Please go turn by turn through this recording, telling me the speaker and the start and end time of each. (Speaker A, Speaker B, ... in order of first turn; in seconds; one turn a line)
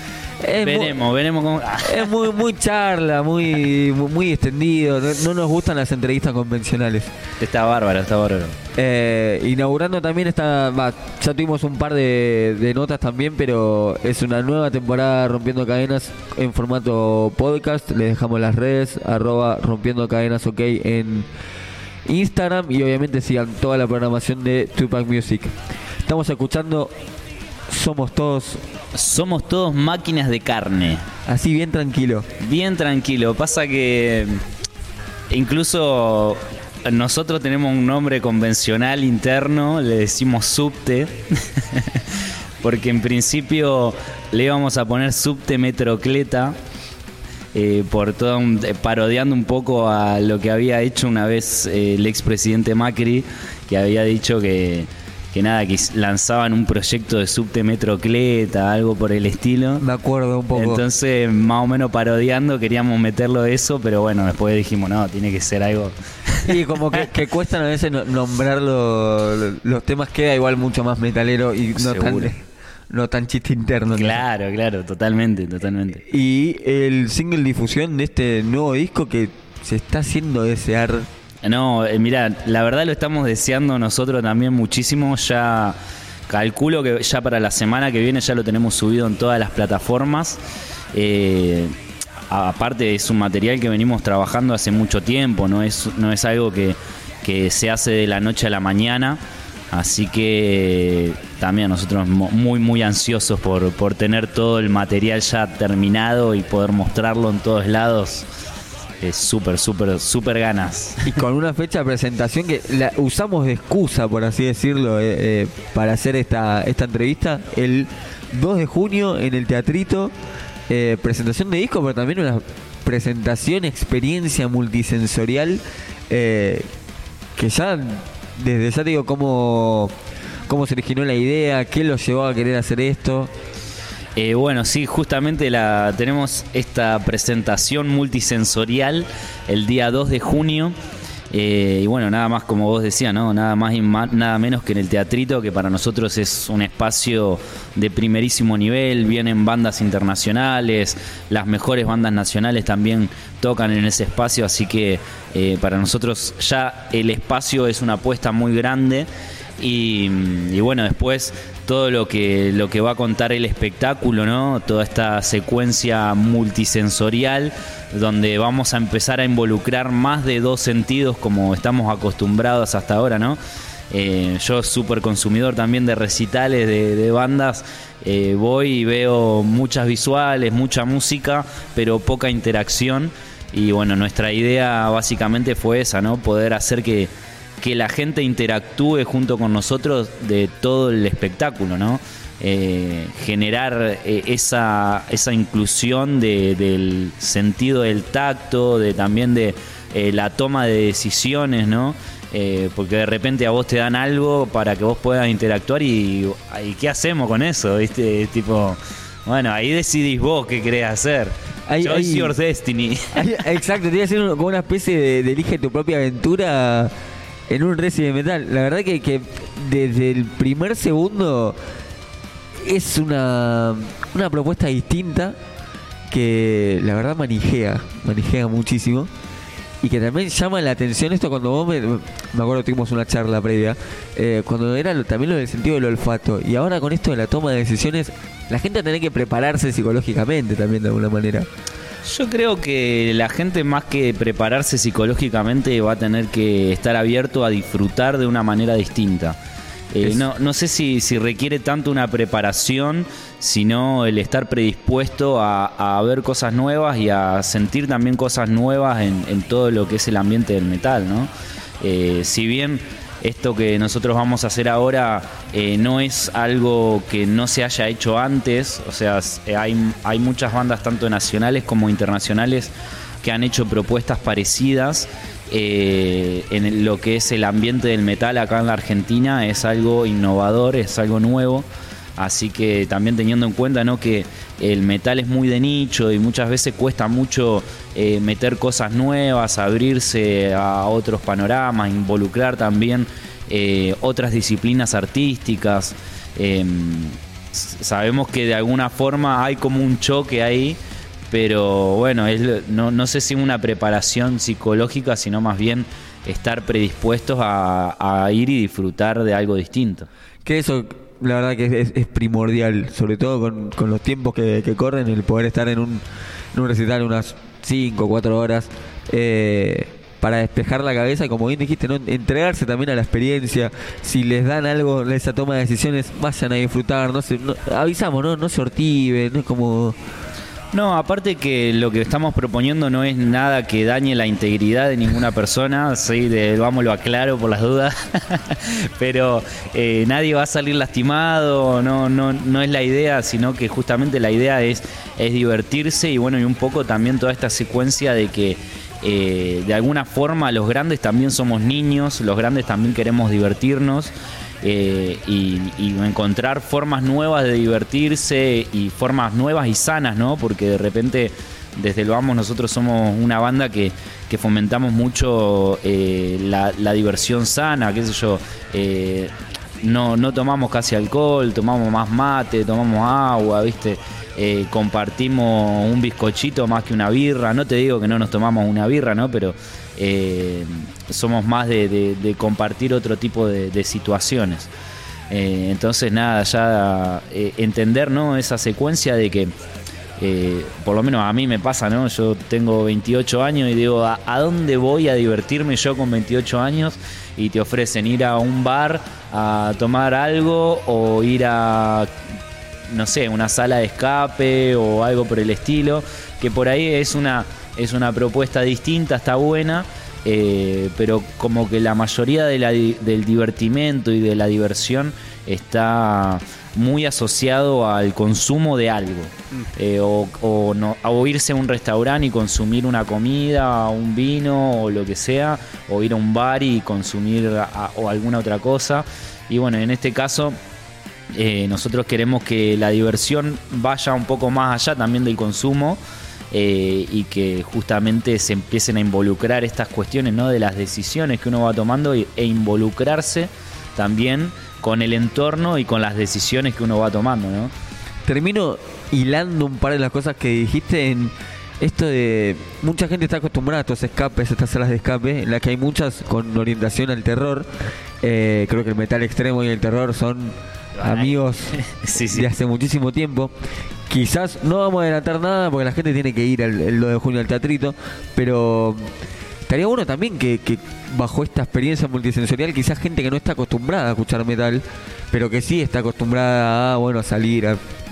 Speaker A: 0.4-1.0
Speaker B: 0.6-2.2
Speaker A: 1.8-7.1
Speaker B: 7.4-8.6
Speaker A: 8.7-21.3
Speaker A: 22.1-26.9
Speaker A: 27.7-28.6
Speaker B: 28.9-31.1
Speaker A: 31.2-32.3
Speaker B: 32.4-34.4
Speaker B: 35.3-46.6
Speaker B: 47.5-59.8
Speaker A: 59.8-60.8
Speaker B: 60.5-67.1
Speaker A: 66.4-74.2
Speaker B: 71.8-72.3
Speaker B: 73.9-76.0
Speaker A: 76.0-81.1
Speaker B: 81.4-85.8
Speaker B: 86.3-90.4
Speaker B: 90.9-91.7
Speaker B: 92.3-99.2
Speaker B: 99.7-108.2
Speaker B: 109.0-111.1
Speaker A: 111.0-120.1
Speaker A: 120.7-126.7
Speaker A: 127.3-129.9
Speaker A: 130.4-133.3
Speaker B: 134.2-140.7
Speaker B: 141.3-159.1
Speaker B: 159.6-173.4
Speaker B: 173.9-213.5
Speaker A: 211.7-212.3
Speaker A: 213.1-216.9
Speaker A: 217.5-221.6
Speaker A: 222.5-225.3
Speaker A: 226.1-229.1
Speaker A: 229.8-241.5
Speaker B: 242.0-249.4
Speaker B: 249.9-300.8
Speaker B: 301.3-310.1
Speaker A: 310.4-316.0
Speaker A: 316.5-329.9
Speaker B: 330.7-384.7
Speaker B: 385.3-389.5
Speaker B: 390.2-402.1
Speaker B: 402.9-430.6
Speaker B: 431.3-436.0
Speaker B: 436.5-447.7
Speaker A: 448.2-457.7
Speaker A: 458.2-461.8
Speaker B: 461.0-462.5
Speaker A: 462.3-463.5
Speaker A: 464.1-469.1
Speaker A: 469.6-477.8